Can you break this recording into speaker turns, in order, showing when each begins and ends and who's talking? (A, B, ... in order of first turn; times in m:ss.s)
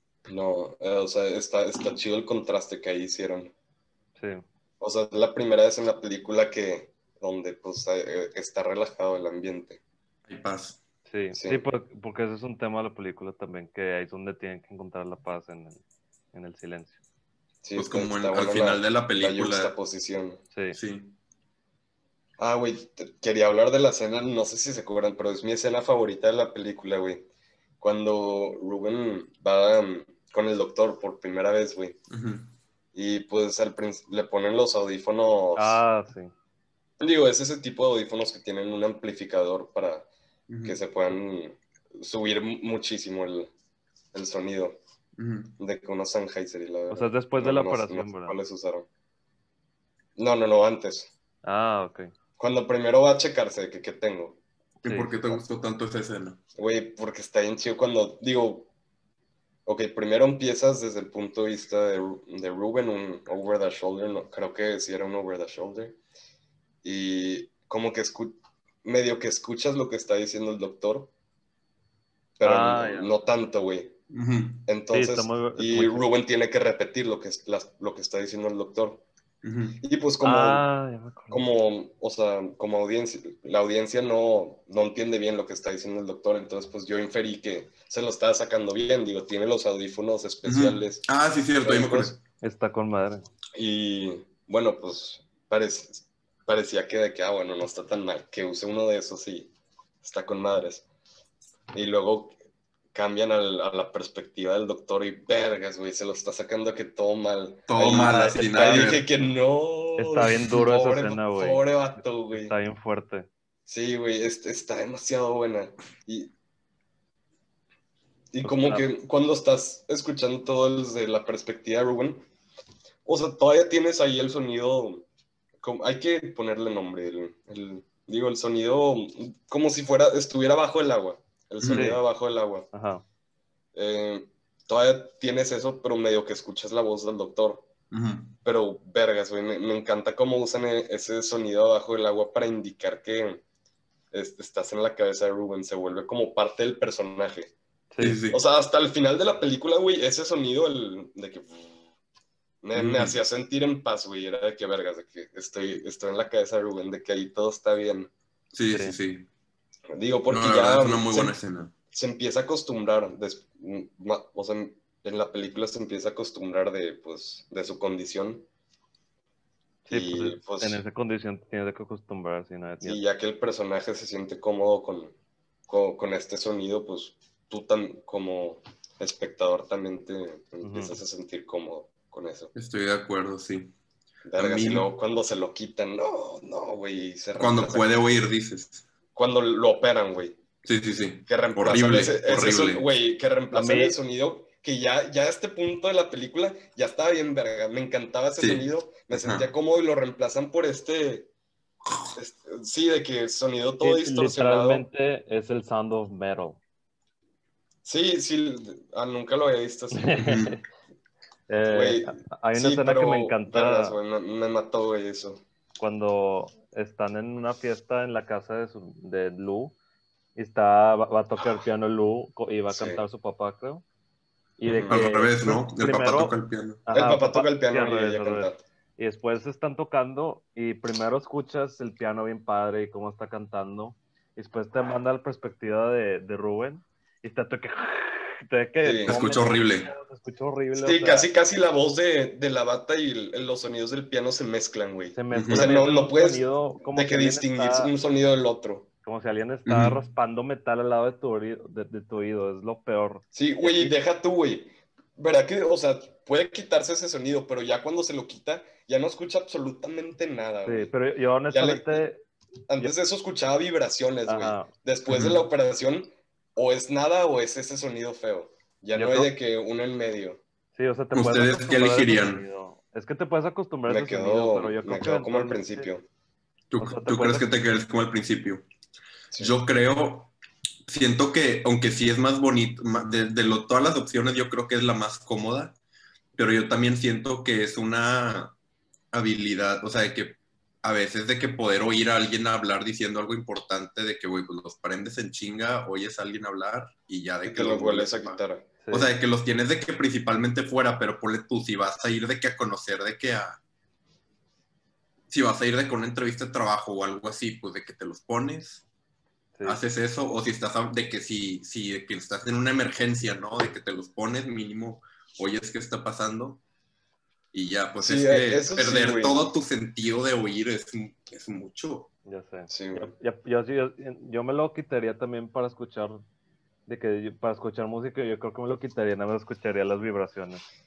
0:00.3-0:03.5 A
0:04.2-0:04.4 B
0:04.8-0:09.8 A
0:10.3-0:10.8 C
0:11.1-0:15.8 B
0:11.3-0:11.6 A
0:16.3-0:17.0 B
0:17.6-0:20.4 A
0:17.8-0:19.7 C
0:20.7-0:21.2 C
0:22.4-0:27.2 A
0:27.8-0:32.0 A
0:32.1-0:32.5 C
0:33.0-0:35.8 A
0:35.6-0:36.3 B
0:37.0-0:40.1 A
0:40.5-0:40.8 C
0:40.6-0:43.5 A
0:44.1-0:44.8 A
0:45.2-0:45.6 C
0:45.6-0:48.9 A
0:46.9-0:48.4 B
0:50.2-0:51.1 A
0:51.4-0:52.1 B
0:52.4-0:54.4 A
0:54.8-0:55.2 B
0:54.8-0:56.4 C
0:56.6-0:58.7 A
0:59.7-1:06.0 A
1:06.8-1:11.1 A
1:12.4-1:14.0 A
1:12.4-1:13.1 B
1:14.1-1:14.7 C
1:14.7-1:19.0 A
1:14.9-1:16.1 B
1:19.4-1:19.8 C
1:19.8-1:20.6 A
1:20.2-1:21.4 B
1:21.3-1:31.0 A
1:30.4-1:32.2 C
1:31.6-1:32.2 A
1:32.4-1:33.2 B
1:33.6-1:39.5 A
1:40.0-1:40.8 A
1:41.7-1:42.4 A
1:42.9-1:52.5 A
1:47.7-1:49.0 C
1:47.9-1:48.9 B
1:50.0-1:53.3 B
1:50.3-1:50.6 C
1:53.7-1:56.3 A
1:58.3-2:02.2 A
1:58.4-1:58.9 B
2:03.0-2:05.0 A
2:05.6-2:12.7 A
2:11.6-2:11.9 C
2:11.7-2:12.0 B
2:12.7-2:13.0 B
2:13.7-2:17.7 A
2:17.9-2:18.3 C
2:18.4-2:23.4 A
2:24.1-2:27.5 A
2:27.9-2:28.2 B
2:28.0-2:28.4 C
2:28.3-2:31.8 A
2:32.6-2:38.1 A
2:32.8-2:33.2 C
2:38.5-2:39.3 C
2:39.9-2:41.4 A
2:40.3-2:41.7 C
2:41.9-2:48.4 A
2:49.9-2:53.0 B
2:49.9-2:50.8 A
2:52.8-2:55.1 A
2:55.7-3:02.5 A
3:00.6-3:01.0 B
3:02.6-3:03.7 C
3:04.3-3:07.9 A
3:04.4-3:04.9 C
3:07.4-3:08.8 C
3:09.2-3:10.4 A
3:10.6-3:12.8 C
3:11.3-3:21.3 A
3:13.5-3:14.0 B
3:18.4-3:19.5 C
3:22.2-3:24.8 A
3:23.8-3:26.6 B
3:27.8-3:30.2 A
3:29.9-3:30.6 B
3:30.2-3:30.6 C
3:31.5-3:34.0 B
3:31.7-3:35.4 A
3:35.8-3:39.8 B
3:40.4-3:43.8 B
3:42.7-3:43.0 A
3:44.6-3:46.4 B
3:44.7-3:45.0 A
3:44.9-3:46.8 C
3:46.9-4:01.3 B
3:46.9-3:48.6 A
3:58.8-3:59.2 A
3:59.1-3:59.9 C
4:00.8-4:08.9 A
4:05.2-4:07.9 B
4:05.3-4:05.7 C
4:09.0-4:13.9 B
4:09.7-4:10.0 C
4:13.3-4:20.9 A
4:20.6-4:22.2 B
4:21.5-4:22.1 A
4:22.7-4:30.4 A
4:24.3-4:24.7 B
4:25.1-4:25.4 C
4:28.9-4:29.3 B
4:30.8-4:35.9 B
4:31.1-4:32.4 C
4:33.9-4:36.0 A
4:36.7-4:38.6 C
4:36.8-4:37.5 B
4:39.4-4:40.3 C
4:40.9-4:45.8 C
4:46.4-4:48.5 C
4:49.1-5:03.6 C
4:57.4-4:58.7 A
4:58.8-4:59.1 B
5:05.3-5:08.8 C
5:09.6-5:09.8 B
5:09.6-5:16.6 C
5:17.5-5:22.1 C
5:18.0-5:19.5 A
5:22.3-5:26.2 B
5:22.7-5:23.1 A
5:26.9-5:30.6 B